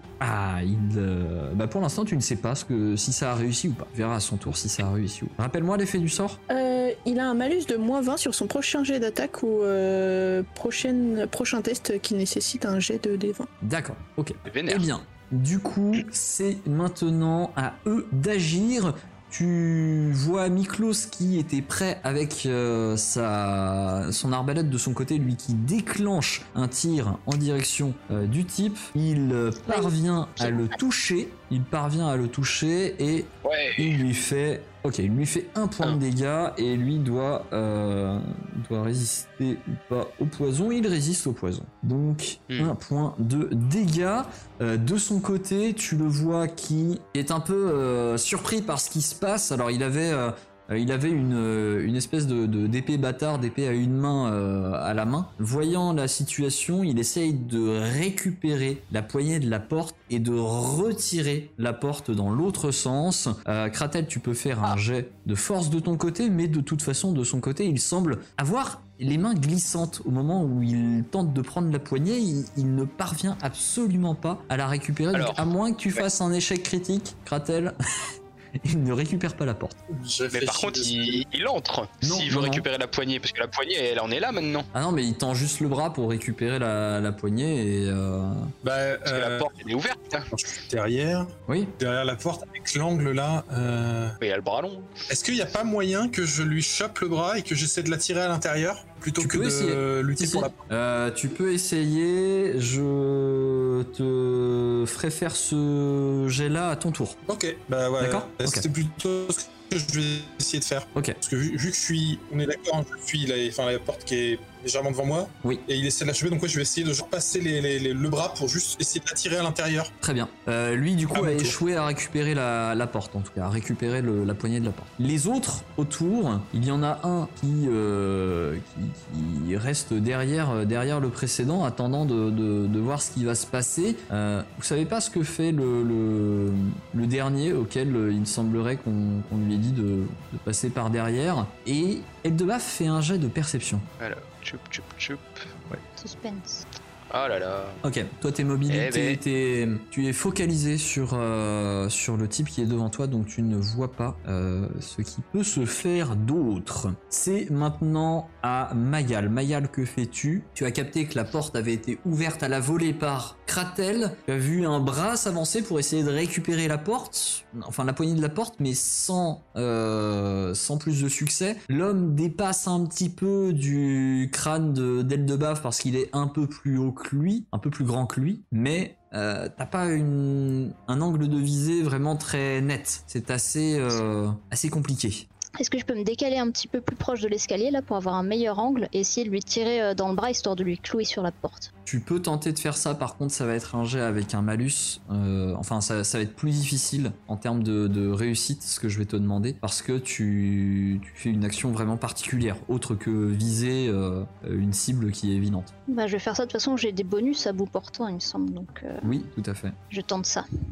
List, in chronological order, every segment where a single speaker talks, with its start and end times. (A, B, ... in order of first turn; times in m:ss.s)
0:00.2-0:06.4 A
0:06.5-0:13.5 B
0:13.6-1:17.8 A
0:14.4-0:14.9 C
0:29.6-0:30.7 D
0:33.4-0:34.0 C
1:15.1-1:16.0 C
1:18.6-1:19.8 A
1:19.9-1:21.2 E
1:20.3-1:24.7 C
1:22.0-1:22.6 A
1:24.7-1:28.5 A
1:28.6-1:29.5 E
1:29.0-1:30.3 C
1:30.3-1:34.2 E
1:31.5-1:31.7 A
1:34.2-1:34.9 C
1:35.1-1:40.6 E
1:39.2-1:47.2 A
1:47.2-1:59.9 E
1:48.0-1:48.6 A
2:00.0-2:23.8 A
2:01.1-2:01.6 E
2:24.0-2:25.4 C
2:26.0-2:26.6 D
2:27.1-2:27.8 C
2:27.8-3:05.3 A
2:28.7-2:29.2 C
3:05.6-3:11.7 D
3:11.8-3:25.7 A
3:25.9-3:29.1 D
3:29.0-3:29.8 A
3:29.9-3:30.4 D